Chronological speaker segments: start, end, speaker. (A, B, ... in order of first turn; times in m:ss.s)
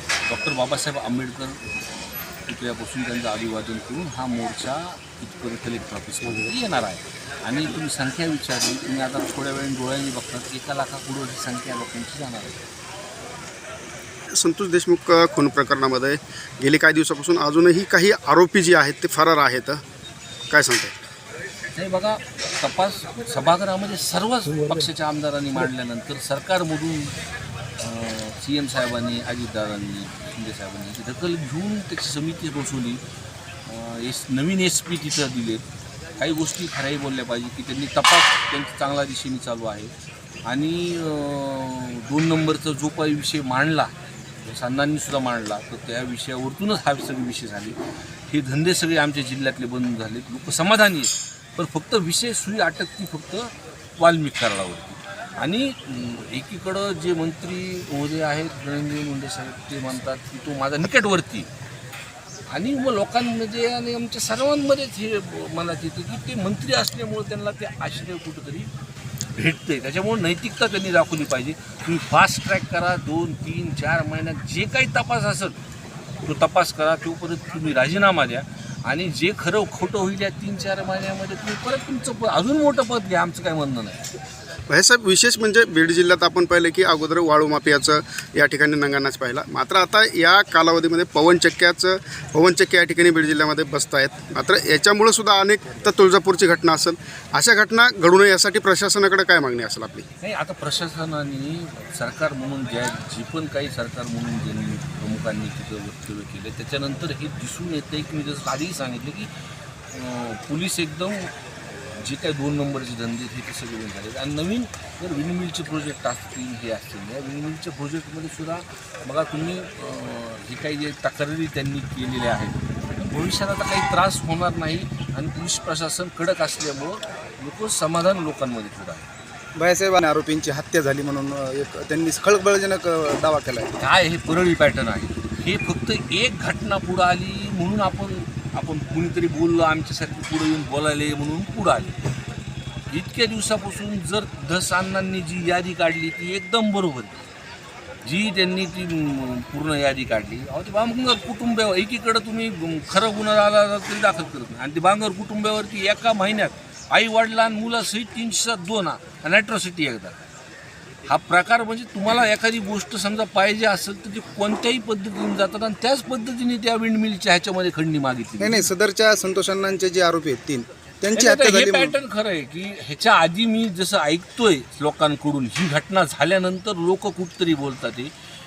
0:00.3-0:12.6 A
0:06.3-0:06.5 B
0:14.3-0:19.8 B
0:20.5-0:21.0 B
0:21.7-0:27.2 A
0:27.8-0:33.0 A
0:33.7-0:35.6 A
0:36.2-0:39.9 A
0:40.5-0:47.8 A
0:48.3-1:01.5 A
1:02.5-1:08.7 A
1:09.4-1:15.6 A
1:16.3-1:24.2 A
1:24.7-1:40.1 B
1:40.2-1:49.3 A
1:49.9-1:51.3 A
1:52.0-2:09.1 A
2:09.6-2:13.7 C
2:13.8-2:22.0 A
2:22.9-2:27.3 A
2:28.0-2:40.3 A
2:41.1-2:48.7 A
2:48.4-2:51.9 C
2:51.2-2:58.1 A